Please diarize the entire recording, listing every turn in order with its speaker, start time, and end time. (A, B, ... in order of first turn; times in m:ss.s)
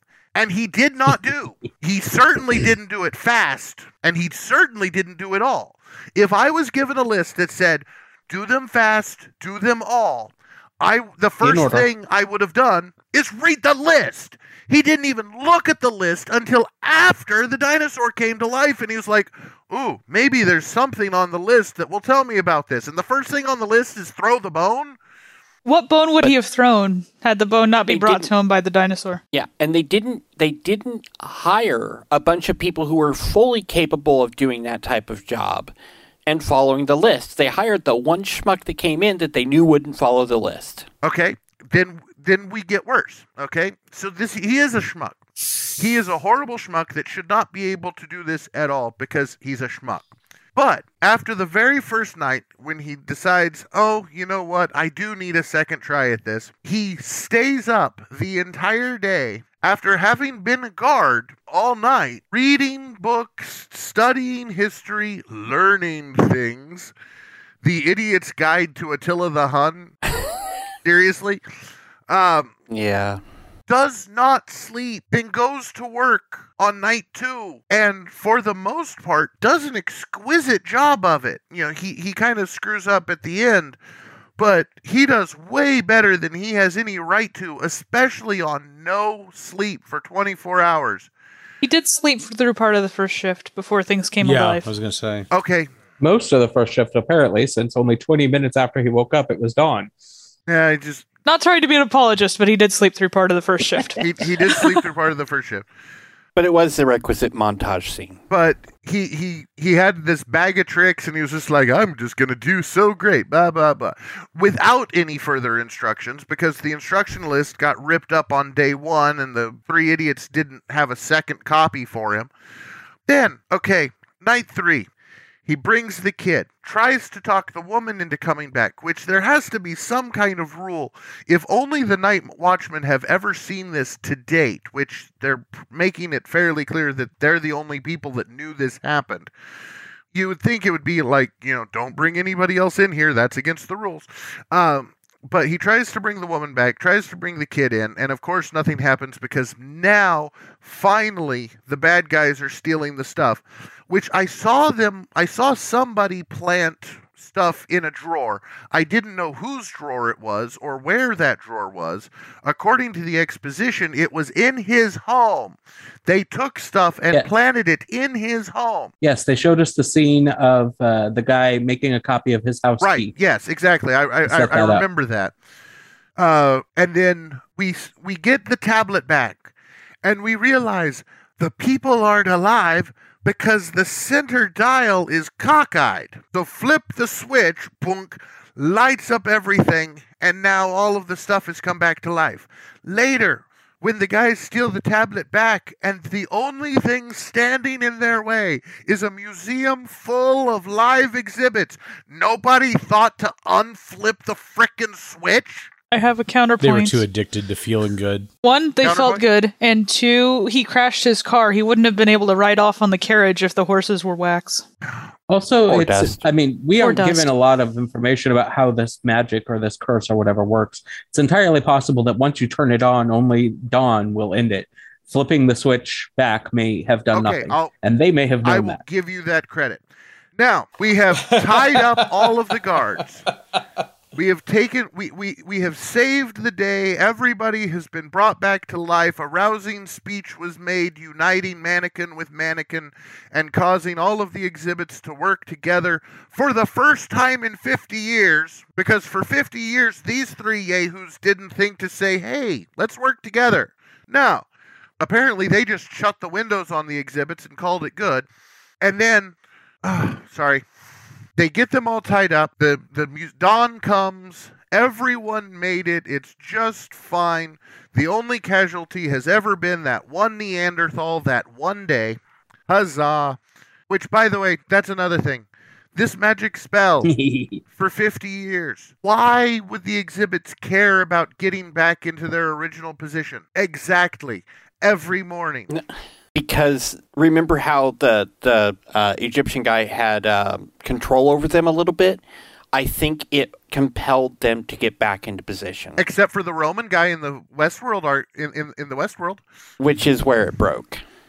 0:00.3-0:25.0 A
0:11.4-0:11.9 B
0:25.6-0:29.2 C
0:27.9-0:28.3 D
0:29.3-0:35.7 D
0:36.3-0:40.9 D
0:41.0-0:45.2 A
0:45.8-1:06.9 A
1:07.6-1:09.9 A
1:10.8-1:11.4 A
1:12.1-1:12.5 A
1:12.7-1:13.2 D
1:13.7-1:23.8 A
1:24.4-1:31.1 A
1:31.6-1:34.7 C
1:34.2-1:35.3 E
1:35.3-1:35.7 A
1:36.0-1:39.9 B
1:40.5-1:41.0 A
1:41.2-1:44.7 C
1:44.0-1:45.6 A
1:46.4-1:48.2 D
1:48.3-2:02.3 A
2:03.1-2:04.9 A
2:05.4-2:19.3 A
2:20.1-2:48.9 A
2:49.0-2:53.1 B
2:52.8-2:55.3 A
2:54.3-2:54.8 B
2:56.2-2:59.5 A
3:00.0-3:25.7 A
3:25.9-3:27.0 C
3:26.6-3:28.3 E
3:28.4-3:34.6 C
3:28.8-3:29.2 A
3:35.3-3:48.8 B
3:35.7-3:36.2 D
3:36.8-3:37.3 C
3:47.1-3:47.7 A
3:48.4-3:49.8 A
3:50.4-3:53.2 A
3:51.2-3:52.3 E
3:54.1-4:14.4 A
4:15.0-4:18.2 A
4:18.8-4:20.6 A
4:21.4-4:33.4 A
4:33.9-4:37.1 A
4:37.0-4:37.6 B
4:37.8-4:45.7 A
4:46.3-4:52.2 D
4:52.7-4:56.0 D
4:56.0-4:59.4 A
4:59.8-5:01.0 D